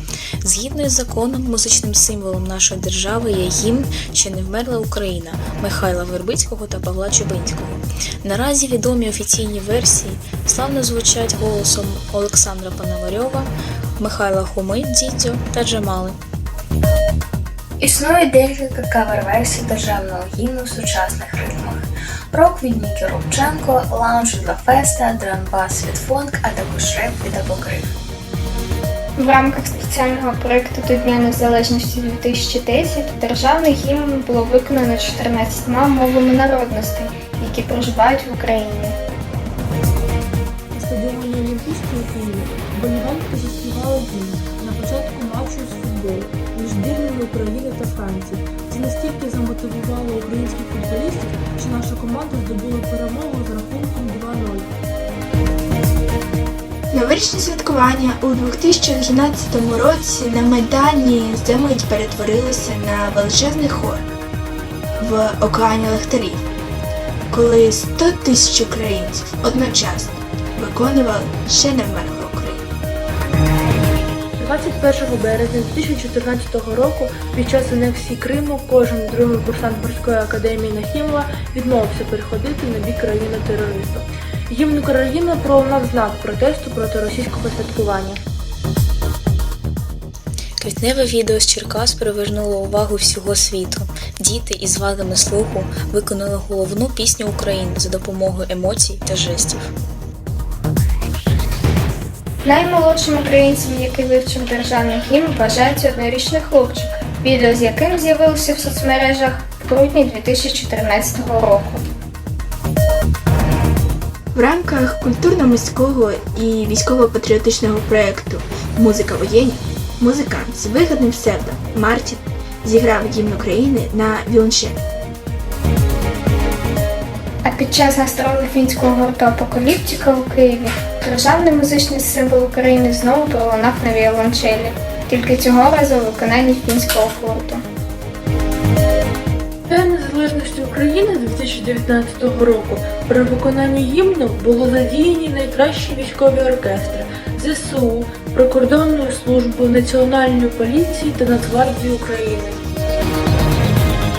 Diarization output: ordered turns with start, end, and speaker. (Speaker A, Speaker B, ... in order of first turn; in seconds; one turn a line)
Speaker A: 0.4-16.2
Speaker B: 17.8-27.9
Speaker C: 29.2-39.0
Speaker D: 40.7-54.7
Speaker E: 56.9-64.0
Speaker E: 65.0-66.4
Speaker E: 67.3-72.6
Speaker D: 74.4-88.2
Speaker A: 90.6-99.7
Speaker C: 102.4-111.8
Speaker E: 114.3-124.8
Speaker C: 127.4-137.6
Speaker D: 139.7-152.6